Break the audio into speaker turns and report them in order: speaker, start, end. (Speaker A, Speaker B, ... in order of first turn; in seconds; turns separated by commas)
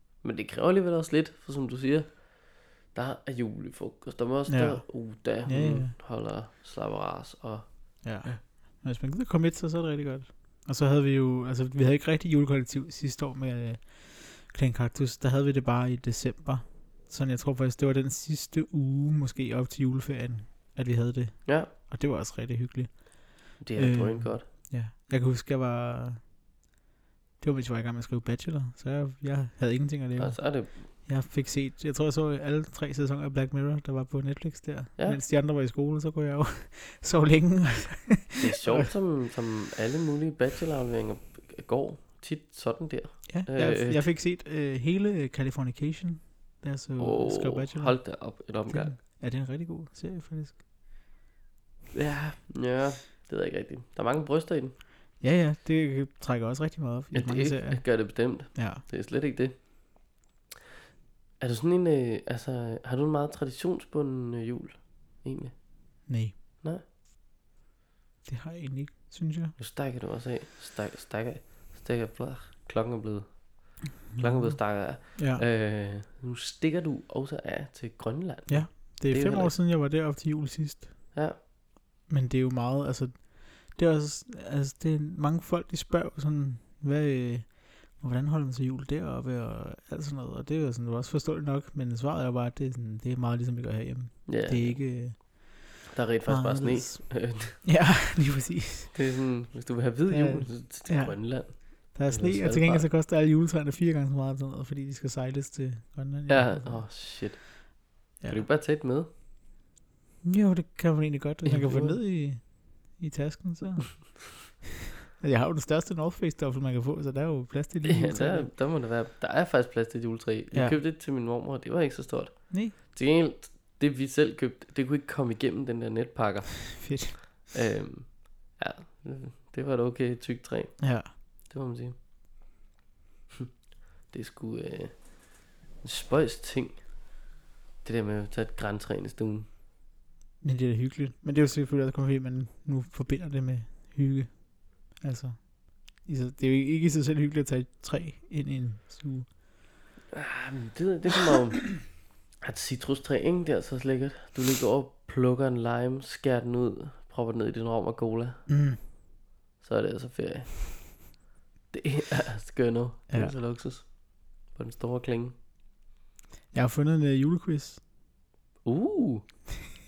Speaker A: 0.2-2.3, Speaker A: 2.9-8.4, Speaker B: 4.5-5.9, Speaker B: 8.0-26.2, Speaker A: 21.4-21.7, Speaker A: 23.6-24.5, Speaker B: 27.4-38.9, Speaker A: 30.2-30.8, Speaker A: 38.4-44.1, Speaker B: 43.3-50.6, Speaker A: 47.0-48.9, Speaker A: 51.9-54.7, Speaker B: 55.2-58.8, Speaker A: 57.1-59.6, Speaker A: 61.4-65.6, Speaker B: 66.1-66.3, Speaker B: 68.2-69.5, Speaker A: 69.6-79.5, Speaker B: 74.1-75.4, Speaker B: 78.5-80.9, Speaker B: 82.1-95.5, Speaker A: 94.2-94.8, Speaker A: 95.9-97.6, Speaker B: 96.3-99.0, Speaker A: 98.9-102.9, Speaker B: 100.1-106.9, Speaker A: 106.3-109.1, Speaker B: 110.2-114.4, Speaker A: 111.4-112.0, Speaker B: 115.2-118.5, Speaker A: 117.8-130.9, Speaker B: 120.5-120.8, Speaker B: 126.8-127.2, Speaker B: 130.8-131.1, Speaker A: 131.5-131.9, Speaker A: 134.1-135.0, Speaker A: 135.8-136.8, Speaker A: 137.8-139.4, Speaker B: 140.4-149.3, Speaker A: 150.1-158.4, Speaker B: 158.5-158.8, Speaker A: 159.6-161.0, Speaker A: 161.7-163.9, Speaker B: 163.1-163.3, Speaker A: 164.5-165.3, Speaker B: 166.5-167.8, Speaker A: 168.6-169.2